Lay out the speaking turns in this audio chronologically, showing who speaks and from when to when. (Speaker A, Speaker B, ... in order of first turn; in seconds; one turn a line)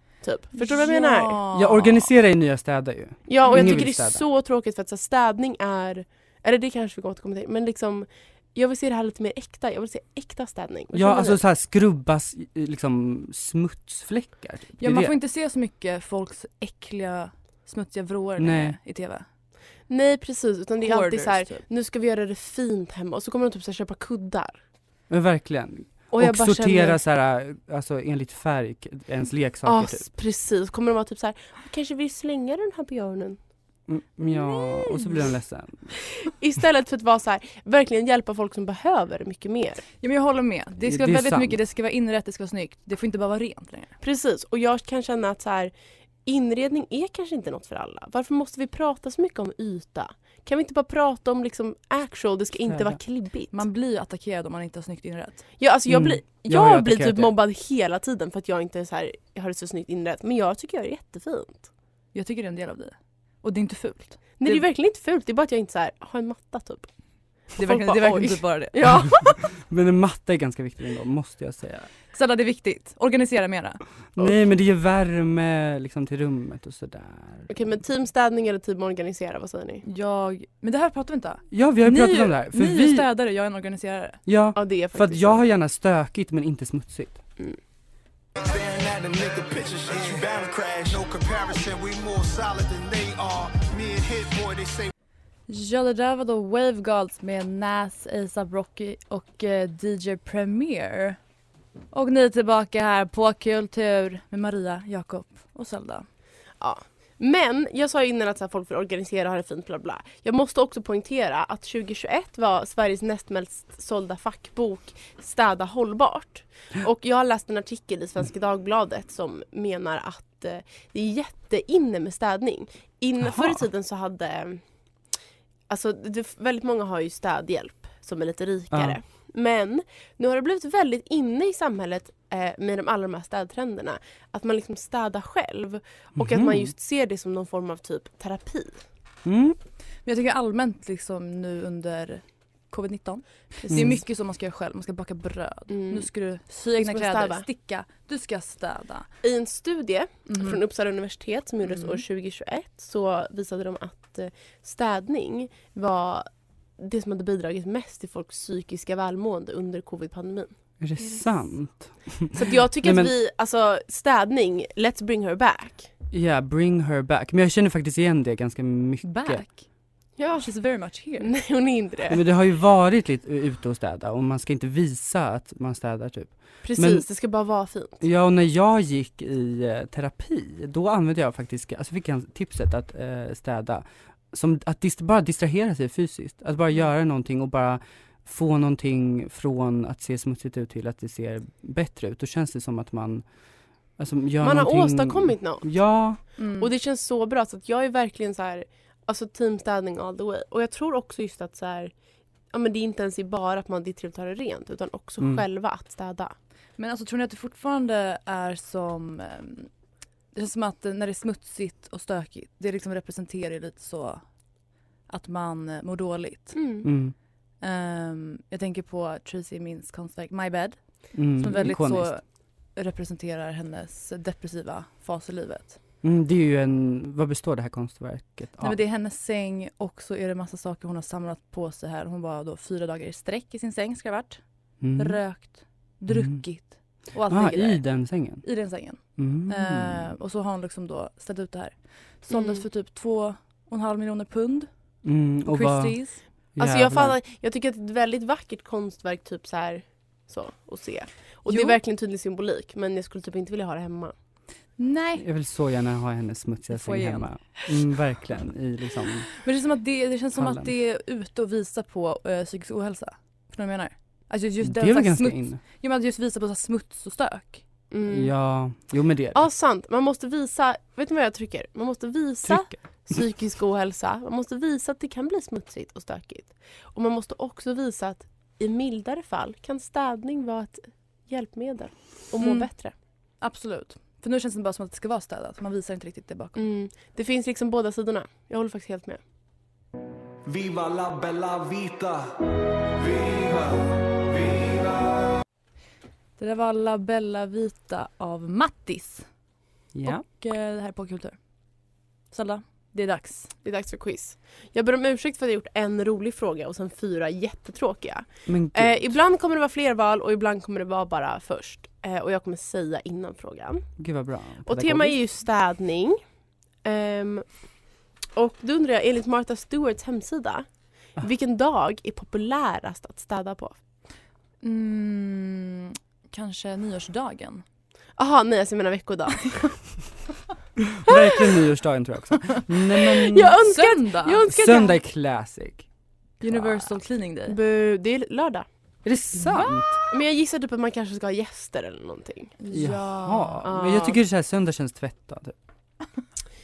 Speaker A: 0.2-1.4
Speaker B: 0.6-2.0
Speaker C: 1.5-4.2
Speaker A: 3.3-11.4
Speaker B: 3.5-3.8
Speaker C: 10.9-15.1
Speaker B: 14.8-19.3
Speaker C: 18.4-18.8
Speaker A: 19.9-24.6
Speaker B: 20.8-21.6
Speaker C: 25.1-30.1
Speaker A: 26.1-27.0
Speaker A: 29.6-33.4
Speaker C: 33.9-35.9
Speaker A: 34.5-35.3
Speaker A: 36.2-39.9
Speaker B: 40.0-43.9
Speaker C: 40.8-41.6
Speaker A: 44.0-45.7
Speaker A: 46.2-53.6
Speaker C: 52.7-53.0
Speaker B: 53.5-55.4
Speaker A: 55.6-61.7
Speaker C: 55.9-57.3
Speaker B: 62.1-64.6
Speaker A: 64.4-66.9
Speaker A: 67.5-69.2
Speaker B: 67.6-69.3
Speaker C: 69.6-71.9
Speaker B: 72.1-73.8
Speaker C: 74.2-77.5
Speaker A: 77.5-79.8
Speaker B: 79.8-84.2
Speaker C: 81.5-83.1
Speaker C: 84.3-87.2
Speaker A: 84.5-85.4
Speaker D: 88.4-94.9
Speaker B: 95.5-101.2
Speaker B: 101.9-106.1
Speaker A: 106.6-124.6
Speaker C: 123.2-123.6
Speaker A: 125.7-138.8
Speaker C: 128.7-129.0
Speaker C: 136.2-136.7
Speaker C: 139.2-139.6
Speaker B: 140.1-149.1
Speaker A: 143.6-143.9
Speaker C: 143.7-144.0
Speaker A: 145.7-146.1
Speaker A: 146.8-147.5
Speaker A: 149.2-160.5
Speaker B: 150.3-150.6
Speaker B: 151.7-152.0
Speaker C: 160.8-163.1
Speaker A: 162.3-165.9
Speaker C: 166.1-169.5
Speaker B: 169.0-169.7
Speaker A: 170.2-172.2
Speaker B: 170.4-171.3
Speaker C: 172.1-177.1
Speaker A: 176.6-178.0
Speaker C: 178.0-193.2
Speaker C: 194.0-196.2
Speaker A: 194.4-201.9
Speaker B: 196.4-196.7
Speaker A: 202.5-206.3
Speaker C: 205.2-205.5
Speaker B: 206.8-209.7
Speaker B: 210.3-214.2
Speaker B: 215.1-216.6
Speaker A: 216.5-216.9
Speaker C: 216.8-217.2
Speaker B: 217.6-225.8
Speaker C: 221.1-222.1
Speaker C: 226.0-228.8
Speaker B: 228.6-234.4
Speaker C: 234.8-235.2
Speaker B: 235.0-244.7
Speaker C: 236.1-236.4
Speaker C: 237.3-238.5
Speaker C: 239.2-240.1
Speaker A: 242.3-242.6
Speaker C: 245.0-246.0
Speaker B: 245.5-246.2
Speaker C: 246.6-247.2
Speaker A: 246.6-254.2
Speaker B: 251.5-251.8
Speaker B: 254.8-255.2
Speaker C: 255.2-259.3
Speaker B: 256.7-257.4
Speaker B: 259.4-267.6
Speaker C: 260.4-260.7
Speaker C: 264.6-265.6
Speaker A: 267.9-268.4
Speaker C: 268.1-269.4
Speaker A: 269.3-282.9
Speaker C: 272.4-272.8
Speaker B: 282.4-282.7
Speaker B: 283.4-286.6
Speaker A: 286.6-289.2
Speaker E: 290.5-292.2
Speaker E: 293.1-293.8
Speaker E: 294.4-294.7
Speaker B: 296.4-299.3
Speaker C: 299.9-300.2
Speaker B: 300.0-301.4
Speaker B: 302.3-303.5
Speaker A: 303.6-313.9
Speaker C: 308.5-309.1
Speaker C: 314.0-315.2
Speaker A: 314.7-316.2
Speaker A: 316.8-317.6
Speaker A: 318.4-323.8
Speaker B: 324.6-327.6
Speaker A: 328.2-329.8
Speaker C: 330.9-333.6
Speaker A: 333.1-335.0
Speaker B: 333.6-334.4
Speaker C: 334.5-335.9
Speaker B: 336.4-337.6
Speaker C: 336.4-337.0
Speaker A: 337.5-338.7
Speaker C: 339.1-339.9
Speaker B: 339.4-340.0
Speaker A: 340.1-342.5
Speaker B: 342.6-343.6
Speaker C: 342.7-345.6
Speaker A: 343.6-344.2